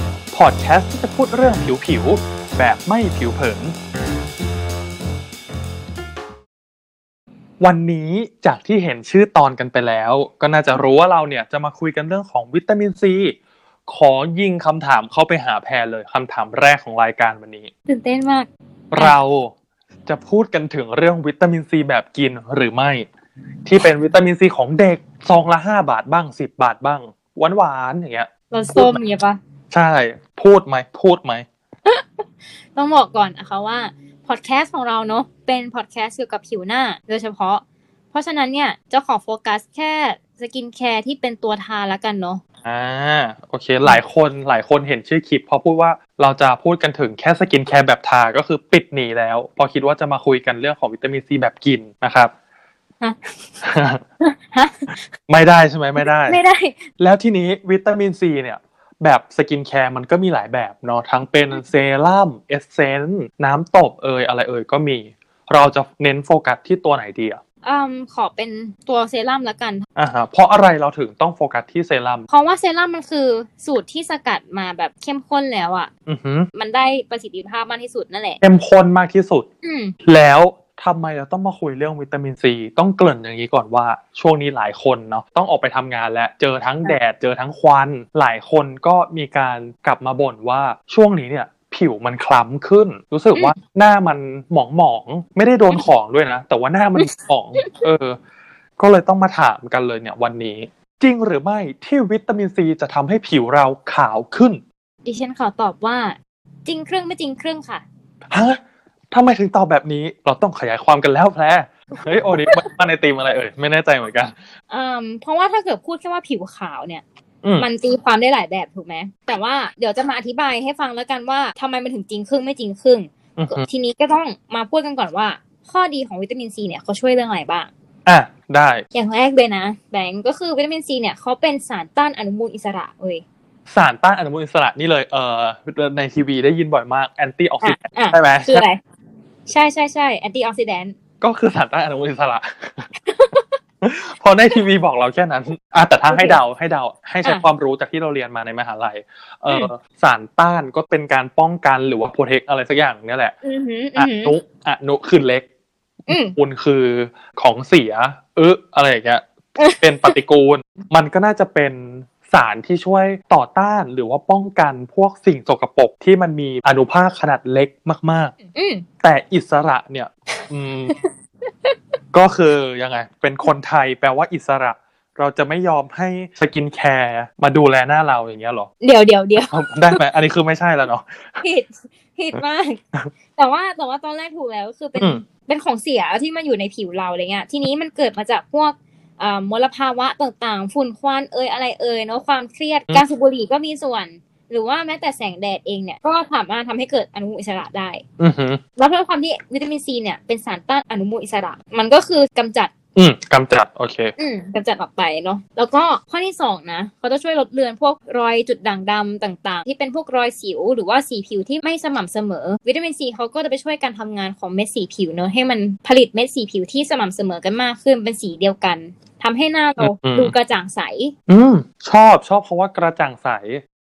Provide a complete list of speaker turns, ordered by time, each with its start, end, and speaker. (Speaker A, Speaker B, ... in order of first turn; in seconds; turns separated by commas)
Speaker A: 0.3-3.8, Speaker A: 7.6-13.4, Speaker A: 13.9-17.7, Speaker B: 17.9-19.2, Speaker A: 18.9-19.5, Speaker A: 20.1-23.1, Speaker A: 23.6-29.0, Speaker B: 28.5-29.4, Speaker A: 29.7-31.5, Speaker B: 31.9-42.4, Speaker A: 42.6-52.3, Speaker A: 53.6-54.0, Speaker B: 54.2-55.0, Speaker A: 55.3-56.4, Speaker B: 56.0-56.8, Speaker A: 57.0-67.4, Speaker B: 67.6-69.8, Speaker A: 70.0-72.3, Speaker B: 72.3-75.9, Speaker A: 76.1-76.5, Speaker B: 76.5-78.4, Speaker A: 78.4-79.5, Speaker B: 79.6-80.0, Speaker A: 80.0-98.2, Speaker B: 97.0-97.8, Speaker A: 98.8-104.6, Speaker B: 105.0-107.8, Speaker A: 108.3-108.6, Speaker A: 109.1-114.4, Speaker B: 114.7-117.0, Speaker A: 117.4-117.7, Speaker B: 117.6-127.7, Speaker A: 123.4-123.7, Speaker A: 128.1-128.8, Speaker B: 128.9-133.2, Speaker A: 133.7-138.6, Speaker B: 137.6-138.8, Speaker B: 139.5-140.9, Speaker A: 141.2-142.9, Speaker B: 143.1-143.5, Speaker A: 143.8-153.3, Speaker B: 146.1-146.4, Speaker B: 153.4-154.4, Speaker A: 154.0-155.5, Speaker A: 156.1-159.2, Speaker B: 156.1-156.4, Speaker B: 159.6-160.2, Speaker A: 159.8-168.3, Speaker B: 168.5-168.9, Speaker A: 169.0-170.9, Speaker B: 170.3-171.1, Speaker A: 172.1-178.7, Speaker B: 178.8-180.0, Speaker A: 179.4-181.4, Speaker B: 181.4-182.8, Speaker B: 183.4-198.0, Speaker A: 198.2-198.6, Speaker B: 198.8-202.7, Speaker A: 202.9-204.1, Speaker B: 204.2-221.1, Speaker A: 219.8-220.3, Speaker A: 221.3-223.6